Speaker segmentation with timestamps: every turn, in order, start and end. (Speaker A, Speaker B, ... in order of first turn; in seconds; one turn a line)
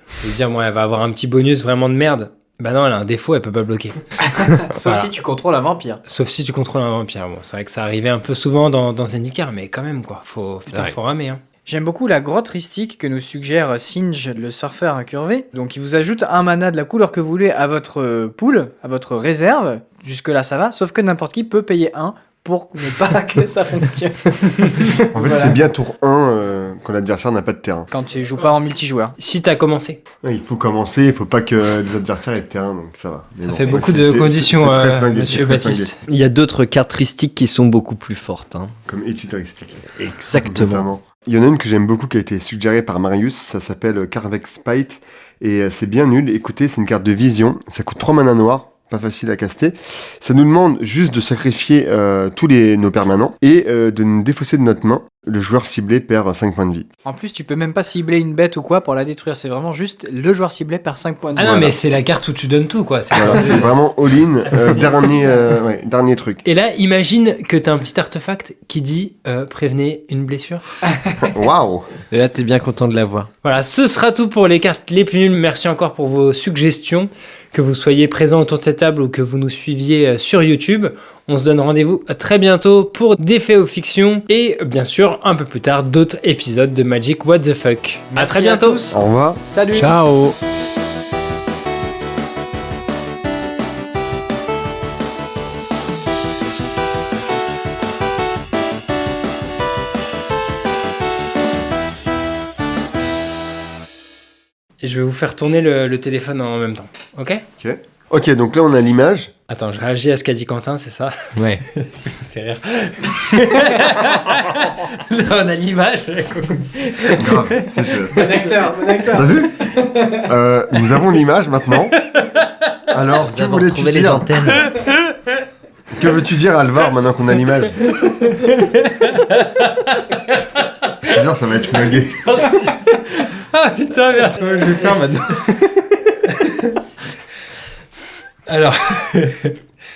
Speaker A: 0.2-4.0
Speaker B: 4.2-6.0
Speaker A: 4.7-5.1
Speaker A: 6.0-11.4
Speaker B: 11.7-25.6
Speaker C: 25.0-27.9
Speaker B: 27.9-29.1
Speaker A: 29.2-30.0
Speaker C: 30.2-35.9
Speaker A: 33.4-36.0
Speaker D: 36.1-38.7
Speaker C: 38.9-39.9
Speaker D: 40.0-40.8
Speaker C: 40.4-56.9
Speaker B: 57.0-61.7
Speaker A: 61.4-63.8
Speaker C: 61.4-61.7
Speaker C: 63.1-66.4
Speaker A: 64.5-65.2
Speaker A: 66.4-70.6
Speaker C: 71.2-71.8
Speaker D: 72.1-73.3
Speaker A: 73.4-88.9
Speaker B: 88.1-89.0
Speaker C: 88.9-89.4
Speaker B: 89.5-89.9
Speaker D: 89.7-90.3
Speaker A: 104.8-107.4
Speaker C: 107.6-109.3
Speaker A: 109.5-118.5
Speaker D: 111.3-111.6
Speaker C: 117.2-118.3
Speaker B: 118.1-120.2
Speaker C: 119.0-122.0
Speaker A: 122.0-122.5
Speaker C: 122.9-124.7
Speaker D: 123.2-124.7
Speaker A: 124.6-125.1
Speaker C: 125.9-127.9
Speaker A: 127.9-130.4
Speaker C: 131.1-132.4
Speaker A: 132.2-136.8
Speaker A: 138.5-139.6